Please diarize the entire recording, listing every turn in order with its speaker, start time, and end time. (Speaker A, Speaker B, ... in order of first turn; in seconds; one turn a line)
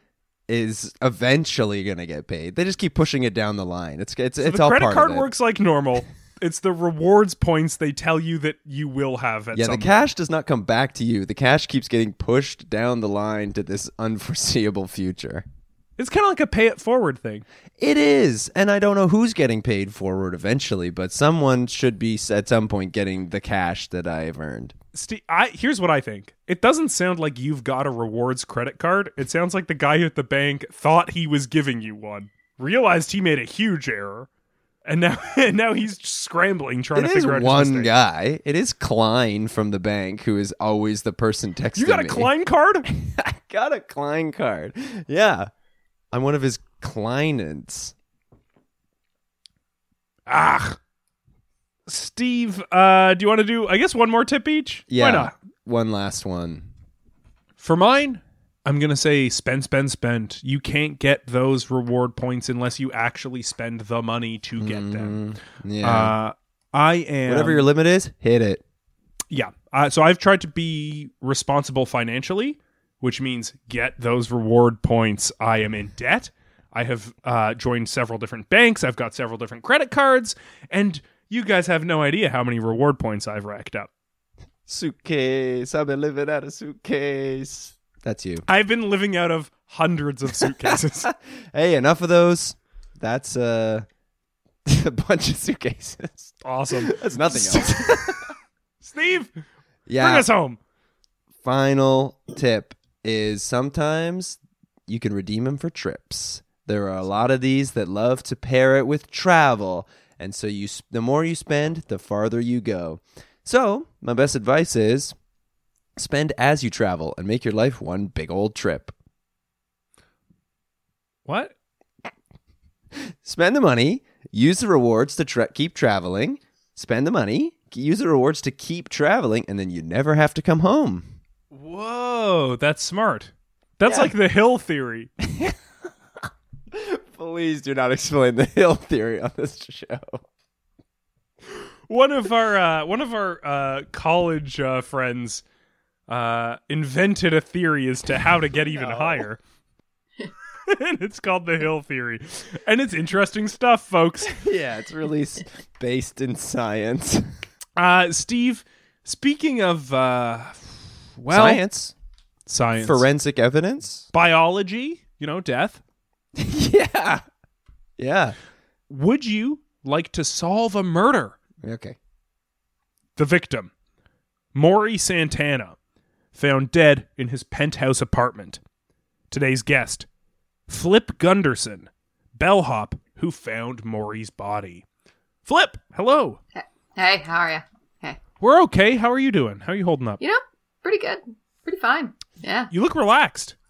Speaker A: 0.5-5.3
Speaker B: 4.4-10.0
Speaker A: 9.5-15.4
Speaker B: 16.0-17.4
Speaker A: 17.8-24.7
Speaker B: 24.9-34.3
Speaker B: 34.9-37.9
Speaker A: 36.9-42.3
Speaker B: 41.7-42.9
Speaker A: 42.8-45.5
Speaker A: 46.1-47.9
Speaker B: 50.3-50.8
Speaker B: 51.9-55.3
Speaker A: 54.9-56.7
Speaker B: 57.6-65.2
Speaker A: 64.6-66.1
Speaker B: 65.8-67.7
Speaker A: 67.2-68.6
Speaker B: 69.3-83.9
Speaker A: 84.7-88.5
Speaker B: 88.5-91.1
Speaker A: 90.4-93.8
Speaker A: 94.7-98.3
Speaker B: 96.4-98.2
Speaker B: 98.8-99.3
Speaker A: 99.9-100.3
Speaker B: 100.0-100.6
Speaker A: 101.4-115.2
Speaker A: 116.0-118.9
Speaker B: 121.2-121.5
Speaker A: 123.2-131.1
Speaker B: 131.5-135.1
Speaker A: 133.8-134.1
Speaker A: 135.3-135.6
Speaker A: 136.7-140.2
Speaker B: 141.9-145.4
Speaker B: 146.1-149.4
Speaker A: 148.7-149.2
Speaker B: 150.7-154.4
Speaker A: 154.2-157.3
Speaker B: 157.8-161.6
Speaker A: 161.3-161.9
Speaker B: 162.5-163.1
Speaker A: 162.8-164.1
Speaker B: 164.1-165.8
Speaker A: 166.4-167.2
Speaker A: 168.0-168.3
Speaker B: 168.9-171.4
Speaker A: 171.6-172.0
Speaker B: 173.2-173.7
Speaker B: 174.5-175.8
Speaker B: 176.3-178.6
Speaker B: 179.3-180.1
Speaker B: 180.7-184.8
Speaker B: 185.4-186.4
Speaker C: 186.5-188.2
Speaker B: 188.4-190.2
Speaker C: 190.2-192.7
Speaker B: 192.7-193.5